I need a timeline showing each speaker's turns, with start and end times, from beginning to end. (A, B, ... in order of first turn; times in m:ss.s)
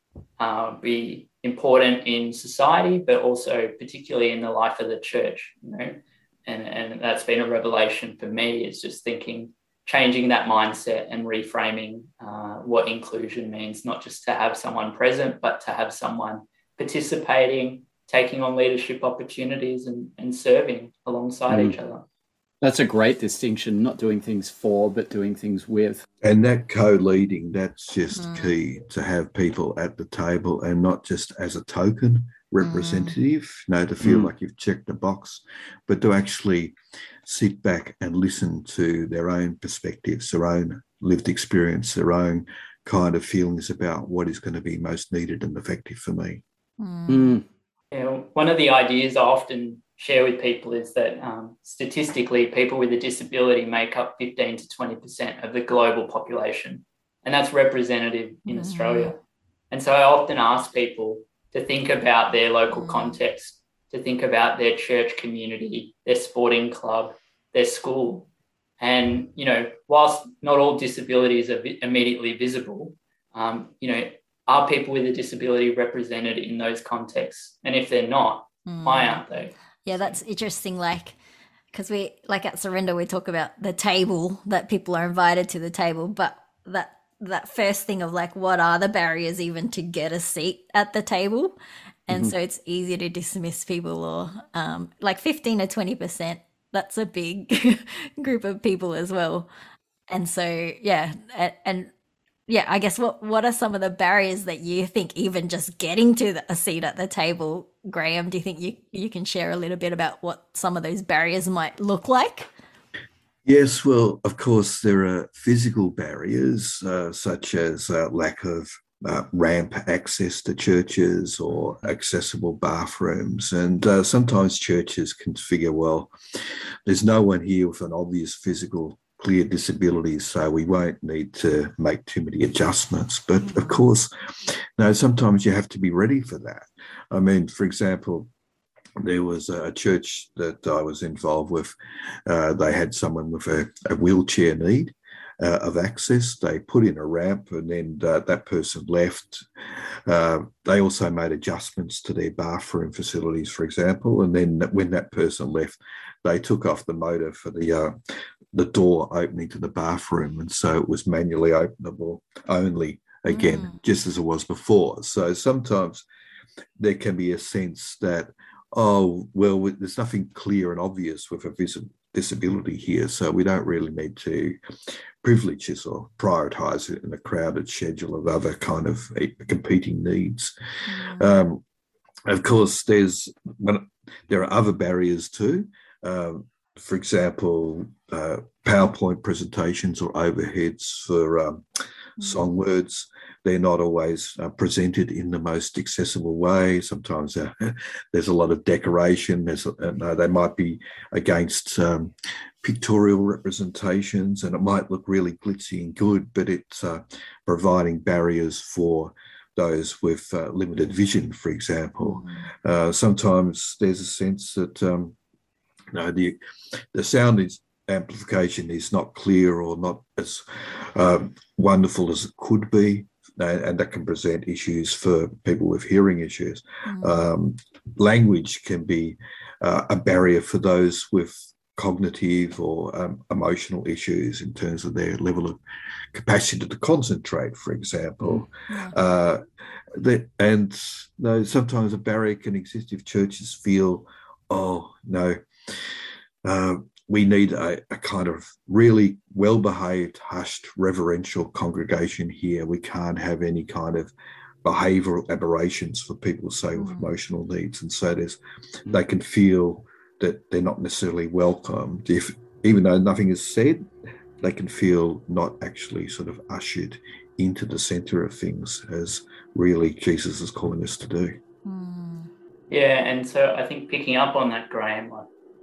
0:00.4-0:22.0 A
0:21.5-0:21.8 B
0:22.6-0:26.0 B
0:26.2-0:46.4 C
0:28.2-0:28.5 D
0:32.6-0:33.2 D
0:34.0-0:34.3 B
0:46.8-0:47.4 D
0:47.1-0:47.4 B
0:47.9-1:08.3 A
0:58.5-0:59.1 D
1:02.7-1:03.2 D
1:08.8-1:20.2 A
1:18.7-1:19.2 D
1:19.8-1:21.2 D
1:21.7-1:31.6 D
1:32.1-1:39.5 D
1:40.1-1:41.9 D
1:42.5-1:52.5 D
1:53.5-2:06.1 C
2:06.9-2:18.3 C
2:19.0-2:29.4 C
2:30.1-2:38.0 C
2:38.5-2:46.1 C
2:43.3-2:43.7 D
2:46.8-2:54.6 C
2:55.2-3:00.5 C
3:00.9-3:01.4 D
3:01.0-3:01.6 C
3:02.3-3:11.6 C
3:12.2-3:35.2 C
3:32.1-3:32.4 D
3:35.9-3:36.4 C
3:36.9-3:55.6 C
3:46.9-3:47.2 D
3:56.1-3:59.4 C
3:59.9-4:05.8 C
4:06.4-4:14.1 C
4:14.6-4:23.8 C
4:16.8-4:17.1 D
4:24.4-4:31.4 C
4:31.6-4:32.3 D
4:32.7-4:35.3 A